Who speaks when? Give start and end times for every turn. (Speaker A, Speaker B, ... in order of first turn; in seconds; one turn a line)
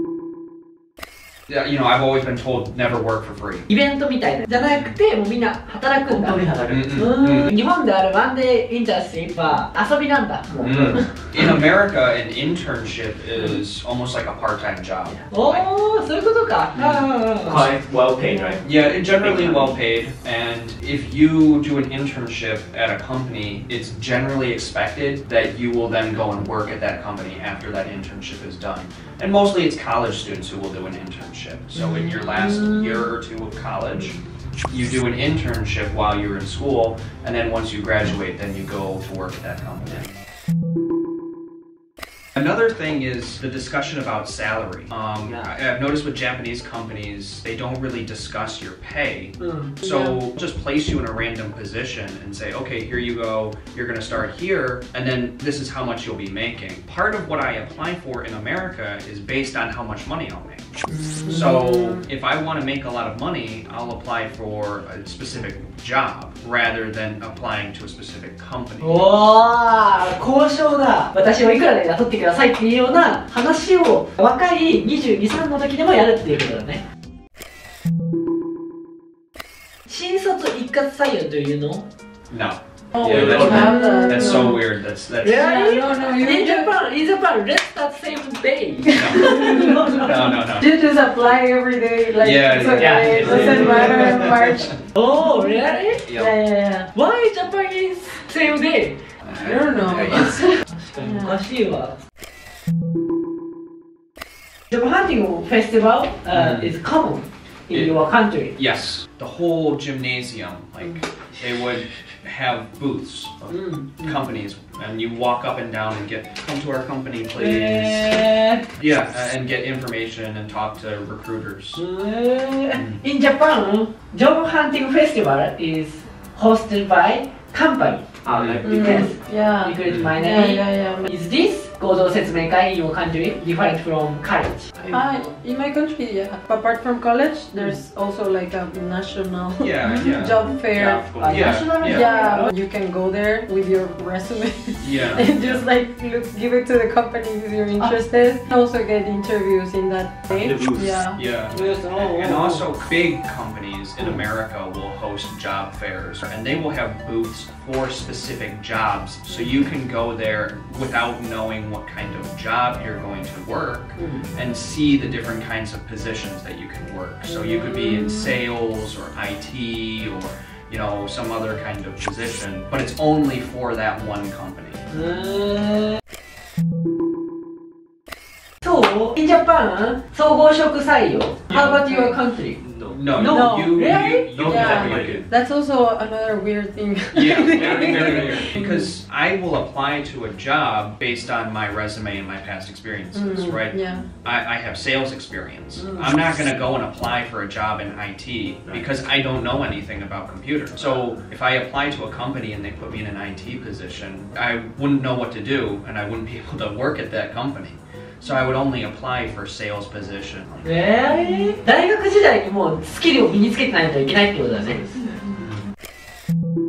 Speaker A: 1.5-3.7
Speaker B: 3.7-6.4
Speaker A: 4.7-5.0
Speaker C: 6.1-7.0
Speaker A: 6.7-7.6
Speaker B: 7.0-11.1
Speaker A: 10.6-15.7
Speaker B: 15.3-17.7
Speaker A: 16.8-17.1
Speaker C: 17.4-20.0
Speaker A: 18.6-34.2
Speaker B: 31.8-33.1
Speaker A: 34.7-40.1
Speaker A: 42.4-69.0
Speaker B: 49.4-49.8
Speaker D: 49.8-50.1
Speaker B: 60.9-61.7
Speaker B: 68.8-76.8
Speaker B: 79.9-81.8
Speaker A: 82.3-85.5
Speaker D: 83.0-84.6
Speaker C: 83.0-83.7
Speaker B: 83.5-84.5
Speaker B: 85.2-90.2
Speaker D: 85.3-86.7
Speaker D: 88.8-94.8
Speaker A: 88.9-90.7
Speaker A: 92.2-94.7
Speaker B: 92.8-94.2
Speaker C: 92.8-94.0
Speaker B: 95.0-96.1
Speaker A: 96.1-96.3
Speaker D: 96.2-96.9
Speaker B: 96.9-99.0
Speaker A: 99.2-100.5
Speaker D: 99.4-101.4
Speaker B: 100.1-102.0
Speaker B: 104.7-108.5
Speaker A: 106.3-106.7
Speaker A: 107.7-108.0
Speaker A: 108.5-118.2
Speaker B: 113.5-114.2
Speaker B: 117.3-118.6
Speaker A: 118.8-121.8
Speaker B: 121.8-128.1
Speaker A: 122.7-123.0
Speaker C: 128.2-129.1
Speaker A: 128.3-128.6
Speaker B: 128.6-135.3
Speaker D: 128.7-131.1
Speaker A: 129.9-130.1
Speaker D: 134.9-151.2
Speaker A: 139.6-140.5
Speaker B: 139.8-140.2
Speaker C: 140.7-141.6
Speaker B: 141.2-142.5
Speaker A: 141.2-142.1
Speaker A: 144.8-145.6
Speaker C: 150.3-151.0
Speaker A: 151.1-174.8
Speaker B: 151.5-152.6
Speaker B: 164.0-164.3
Speaker B: 167.2-168.3
Speaker B: 174.9-176.0
Speaker B: 178.6-182.6
Speaker A: 181.5-181.8
Speaker D: 181.9-182.2
Speaker C: 182.6-183.0
Speaker A: 182.9-185.3
Speaker B: 183.1-184.3
Speaker D: 183.2-183.8
Speaker C: 184.3-185.2
Speaker D: 184.4-188.9
Speaker A: 187.2-210.9
Speaker C: 187.5-188.5
Speaker D: 193.1-194.1
Speaker B: 195.8-196.2
Speaker B: 210.6-214.8
Speaker C: 214.5-215.3
Speaker A: 215.4-215.6